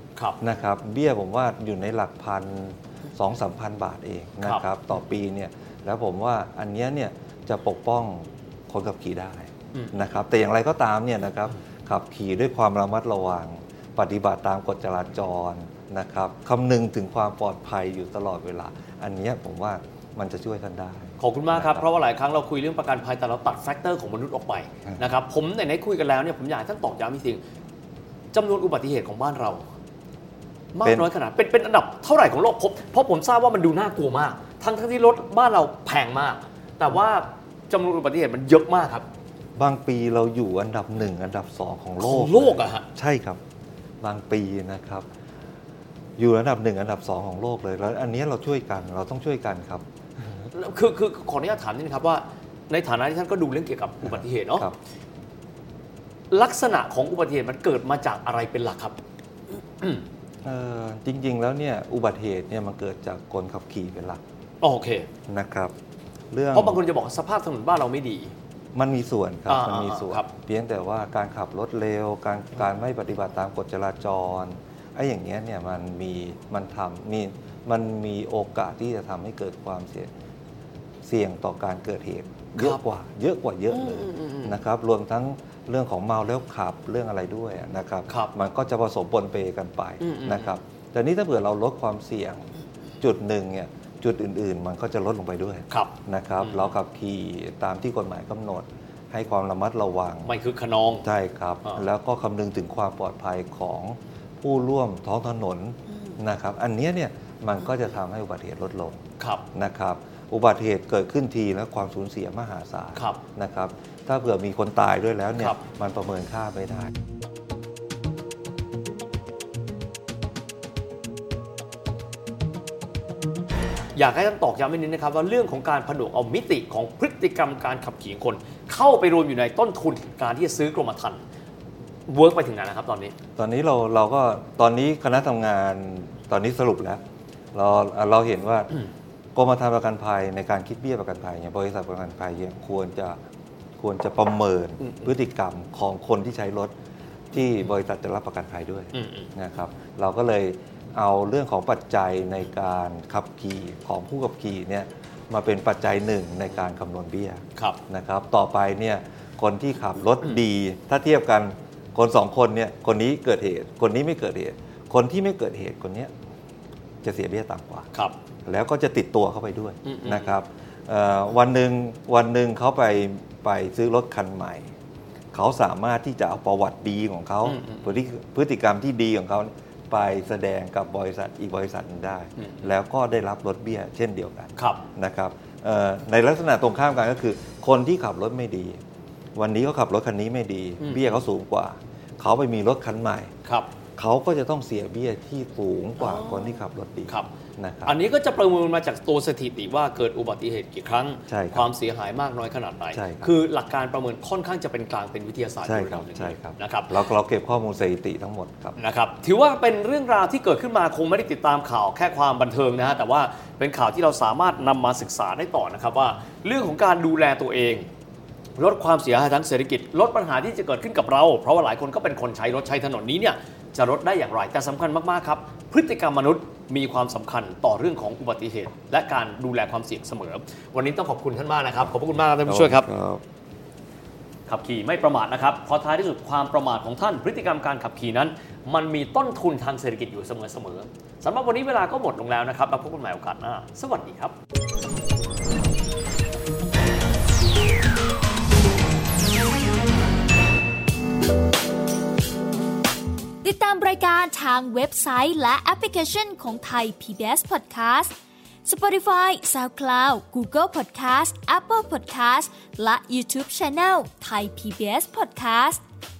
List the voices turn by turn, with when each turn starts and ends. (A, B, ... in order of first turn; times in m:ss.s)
0:00.4-0:21.8 A
0:04.4-0:04.7 B
0:09.7-0:10.1 B
0:21.2-0:27.4 B
0:28.3-0:29.7 B
0:30.7-0:39.0 B
0:30.8-0:31.1 A
0:39.6-0:43.4 A
0:42.0-0:42.8 B
0:44.0-0:45.1 A
0:46.2-0:49.8 A
0:50.5-0:54.7 B
0:54.0-0:54.8 A
0:56.3-0:59.0 B
0:59.8-1:00.0 B
1:00.4-1:04.2 A
1:04.6-1:05.1 B
1:05.3-1:05.7 A
1:06.3-1:06.8 A
1:06.5-1:08.3 B
1:08.7-1:20.1 A
1:09.5-1:10.3 B
1:21.0-1:40.3 A
1:23.7-1:24.6 B
1:30.0-1:30.6 B
1:35.7-1:36.7 B
1:40.2-1:41.1 B
1:41.0-1:49.0 A
1:49.2-1:49.4 B
1:49.5-1:56.9 A
1:53.0-1:53.2 B
2:03.9-2:11.2 B
2:12.1-2:13.1 B
2:13.4-2:17.0 A
2:17.5-2:18.8 A
2:19.3-2:23.2 A
2:23.8-2:26.7 A
2:24.8-2:25.1 B
2:27.3-2:46.1 A
2:28.9-2:29.3 B
2:47.0-2:47.9 A
2:48.4-2:54.7 A
2:49.8-2:50.3 B
2:55.3-3:08.8 A
2:57.4-2:57.9 B
3:02.4-3:02.7 B
3:04.6-3:04.8 B
3:09.4-3:13.3 A
3:10.8-3:11.1 B
3:13.4-3:13.7 B
3:14.0-3:18.0 A
3:16.0-3:17.3 B
3:17.8-3:27.0 B
3:21.3-3:21.7 A
3:22.9-3:23.3 A
3:25.6-3:28.8 A
3:28.8-3:37.9 B
3:38.6-3:52.9 B
3:52.4-3:53.2 A
3:54.5-4:04.3 B
4:13.4-4:18.1 C
4:18.6-4:25.8 C